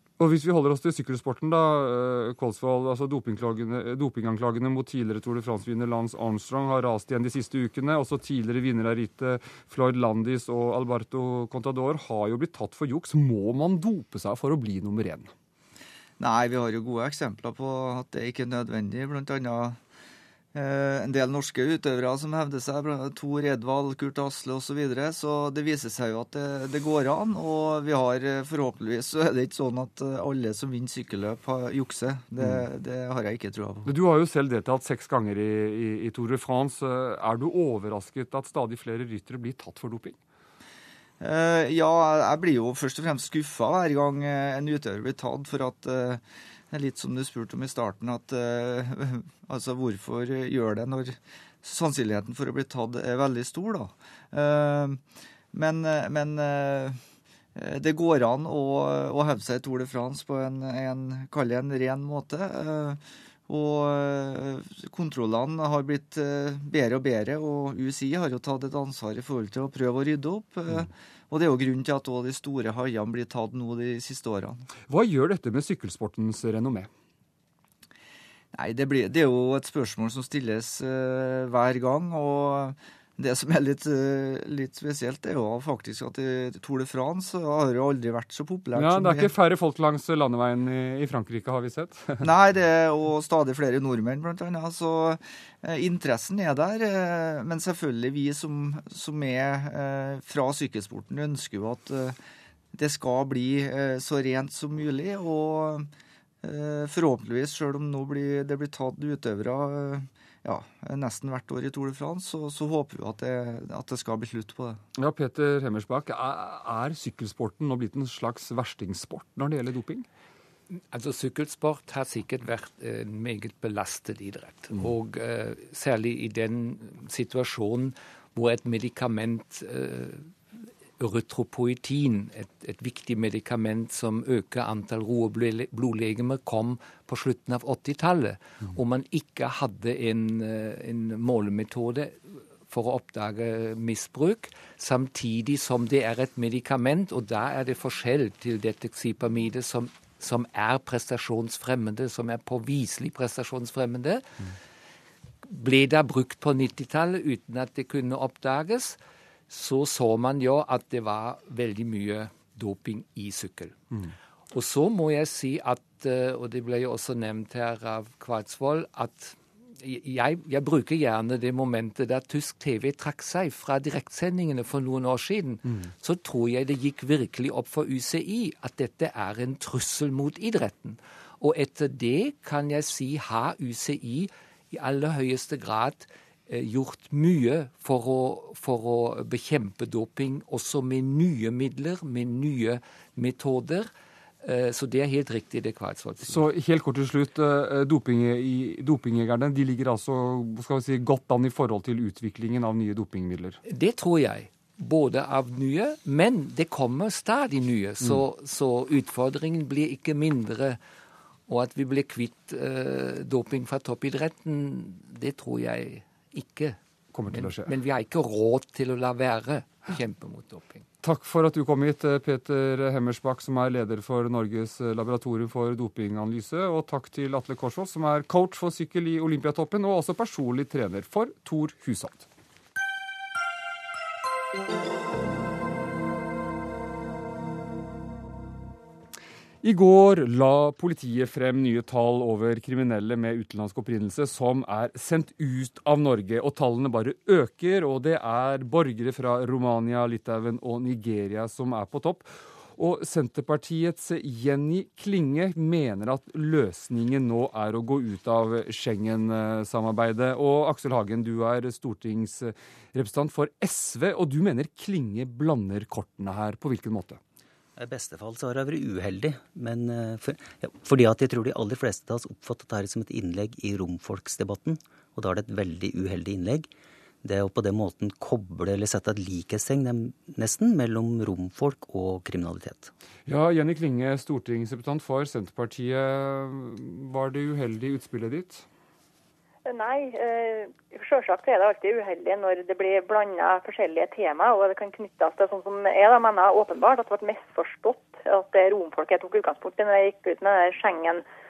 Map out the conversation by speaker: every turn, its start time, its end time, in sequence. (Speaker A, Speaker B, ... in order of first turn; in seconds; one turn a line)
Speaker A: 0.2-15.3
Speaker B: 16.2-19.8
Speaker B: 20.5-33.9
Speaker A: 32.4-32.6
Speaker A: 33.9-40.2
Speaker B: 41.2-57.0
Speaker B: 57.6-74.7
Speaker A: 74.9-76.9
Speaker B: 78.5-89.3
Speaker A: 88.8-92.2
Speaker B: 92.2-102.2
Speaker B: 102.7-105.9
Speaker B: 106.4-114.8
Speaker A: 115.0-120.1
Speaker C: 120.7-130.3
Speaker C: 131.0-154.4
Speaker C: 155.4-159.0
Speaker C: 159.5-163.8
Speaker C: 164.5-193.9
Speaker C: 194.4-196.4
Speaker A: 196.2-203.6
Speaker C: 203.7-210.8
Speaker C: 211.5-216.8
Speaker A: 217.1-217.7
Speaker C: 217.3-220.9
Speaker A: 221.0-232.3
Speaker A: 239.6-267.2
Speaker D: 267.8-276.7
Speaker D: 277.2-282.9
Speaker A: 283.3-288.6
Speaker E: 289.7-301.2